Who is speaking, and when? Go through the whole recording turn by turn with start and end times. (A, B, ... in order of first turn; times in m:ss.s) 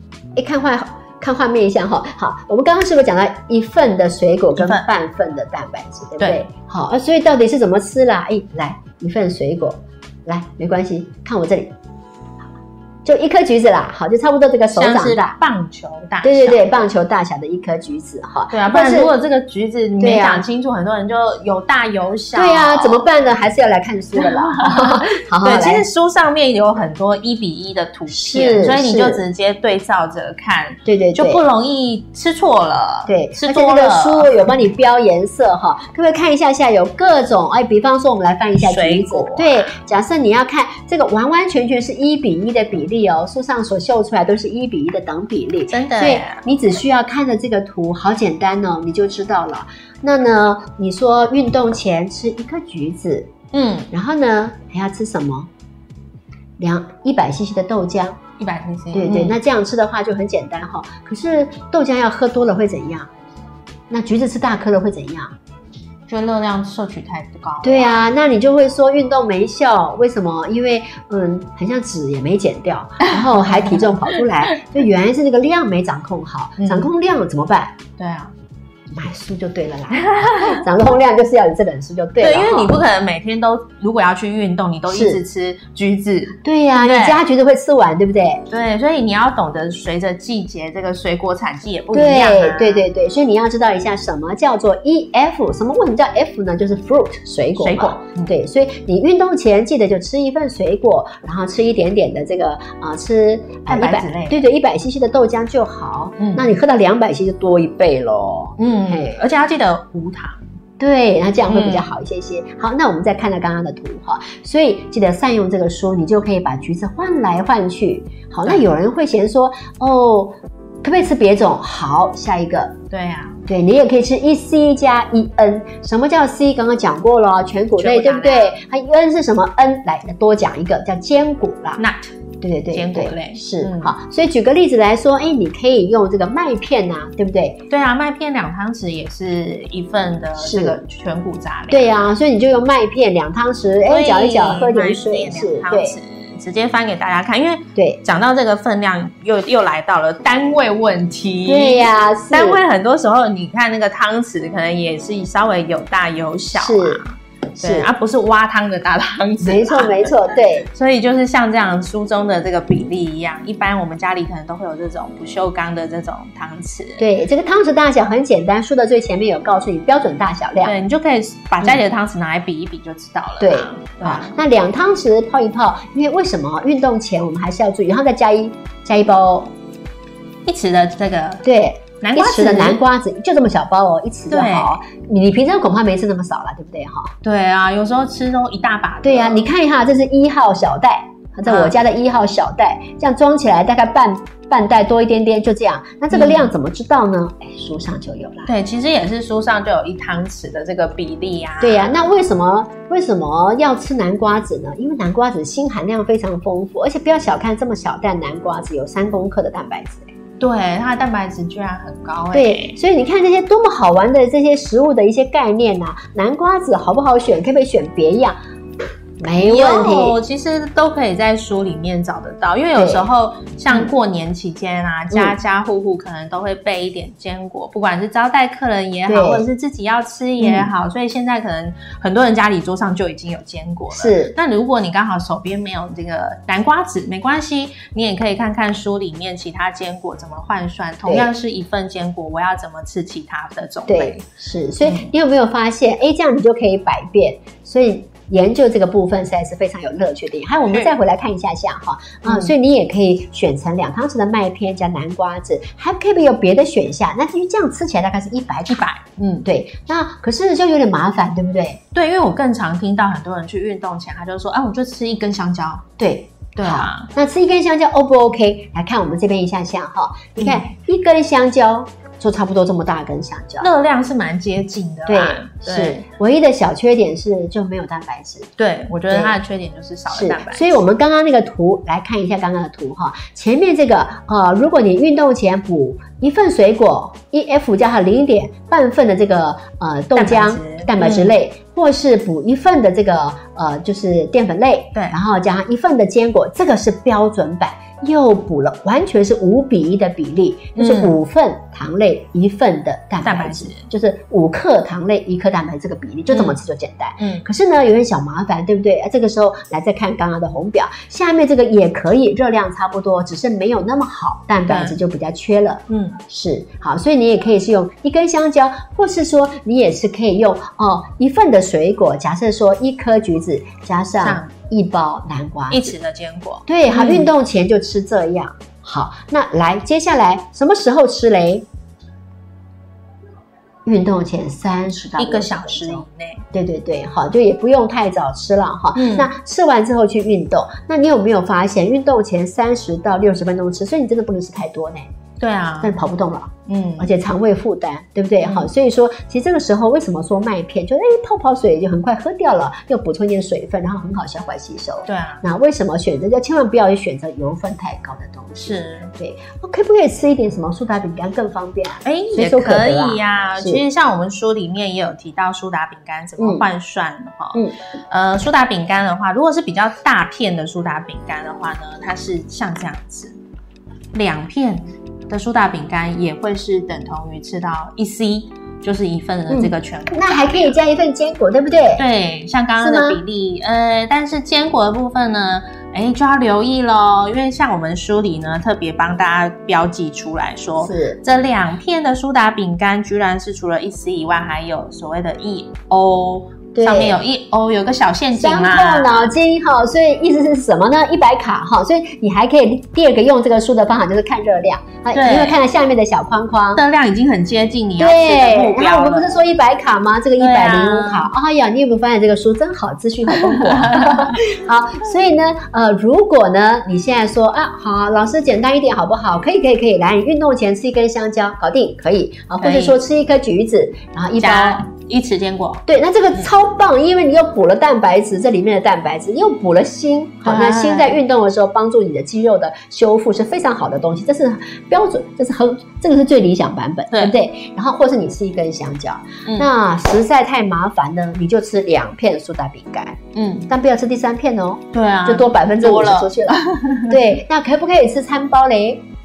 0:00.4-0:11.7 A
0:04.6-0:04.9 B
0:06.2-0:06.5 B
0:13.0-0:15.4 A
0:14.7-0:16.6 B
0:16.2-0:19.1 A
0:18.5-0:23.0 B
0:20.0-0:20.5 A
0:22.3-0:25.9 A
0:24.2-0:34.4 B
0:28.1-0:29.2 A
0:30.8-0:31.4 A
0:33.1-0:53.3 A
0:38.6-0:39.7 B
0:45.7-0:46.4 B
0:53.5-0:53.9 B
0:53.9-0:55.5 A
0:56.6-0:58.2 A
0:58.4-0:59.4 B
0:58.9-1:03.1 A
1:03.9-1:05.3 A
1:06.1-1:08.0 B
1:07.6-1:17.8 A
1:13.2-1:14.0 B
1:16.6-1:16.9 B
1:18.0-1:18.3 B
1:18.9-1:22.8 A
1:20.1-1:20.6 B
1:22.2-1:27.2 B
1:24.9-1:25.2 A
1:26.4-1:28.4 A
1:28.5-1:32.9 B
1:31.9-1:49.2 A
1:37.6-1:38.3 B
1:43.7-1:44.4 B
1:46.2-1:46.5 B
1:48.6-1:50.4 B
1:50.8-2:02.7 A
1:51.5-1:51.9 B
2:02.9-2:03.4 B
2:03.5-2:11.8 A
2:07.8-2:08.6 B
2:11.8-2:12.2 B
2:12.4-2:17.6 A
2:12.7-2:13.9 B
2:17.7-2:21.9 B
2:20.4-2:20.8 A
2:21.7-2:26.0 A
2:23.9-2:47.0 B
2:27.8-2:28.0 A
2:31.4-2:32.6 A
2:36.6-2:37.0 A
2:37.6-2:37.9 A
2:39.4-2:40.7 A
2:47.0-2:50.7 A
2:50.6-2:54.3 B
2:53.4-2:59.5 A
3:00.4-3:01.4 B
3:01.4-3:07.1 A
3:02.0-3:02.8 B
3:04.3-3:04.8 B
3:07.2-3:09.5 B
3:09.0-3:18.5 A
3:11.5-3:11.8 B
3:16.1-3:16.5 B
3:18.5-3:22.0 B
3:21.6-3:30.1 A
3:30.4-3:32.8 B
3:32.3-3:38.4 A
3:39.2-3:40.2 A
3:39.4-4:04.2 B
3:42.8-3:43.1 A
3:49.1-3:49.4 A
3:50.4-3:50.7 A
3:53.9-3:54.4 A
4:03.9-4:18.9 A
4:04.8-4:05.1 B
4:12.2-4:12.5 B
4:18.7-4:19.5 B
4:19.4-4:21.8 A
4:21.9-4:25.9 B
4:26.0-4:33.7 A
4:26.6-4:27.1 B
4:30.4-4:30.7 B
4:33.6-4:36.0 B
4:35.1-4:38.5 A
4:38.6-4:40.8 B
4:39.1-4:39.4 A
4:40.1-5:26.0 A
4:50.2-4:51.3 B
5:00.8-5:01.2 B
5:03.2-5:03.9 B
5:06.3-5:06.6 B
5:07.2-5:07.5 B
5:14.7-5:15.0 B
5:15.9-5:16.2 B
5:24.2-5:24.5 B
5:25.7-5:27.3 B
5:26.7-5:31.7 A
5:33.9-5:45.1 A
5:35.2-5:36.4 B
5:39.0-5:39.3 B
5:45.4-5:46.0 B
5:45.8-6:03.8 A
5:46.7-5:47.1 B
5:48.4-5:48.7 B
5:55.1-5:55.4 B
5:58.6-5:59.1 B
6:02.0-6:13.4 B
6:06.4-6:06.7 A
6:14.1-6:20.8 B
6:19.5-6:22.0 A
6:22.0-6:39.3 B
6:22.8-6:23.2 A
6:30.8-6:31.2 A
6:36.8-6:37.2 A
6:38.4-6:46.8 A
6:45.1-6:45.6 B
6:46.7-6:49.4 B
6:48.0-7:04.9 A
6:50.4-6:51.3 B
6:53.3-6:54.4 B
7:02.6-7:03.0 B
7:04.4-7:05.8 B
7:05.9-7:29.0 A
7:10.4-7:11.2 B
7:23.3-7:23.7 B
7:24.9-7:27.2 B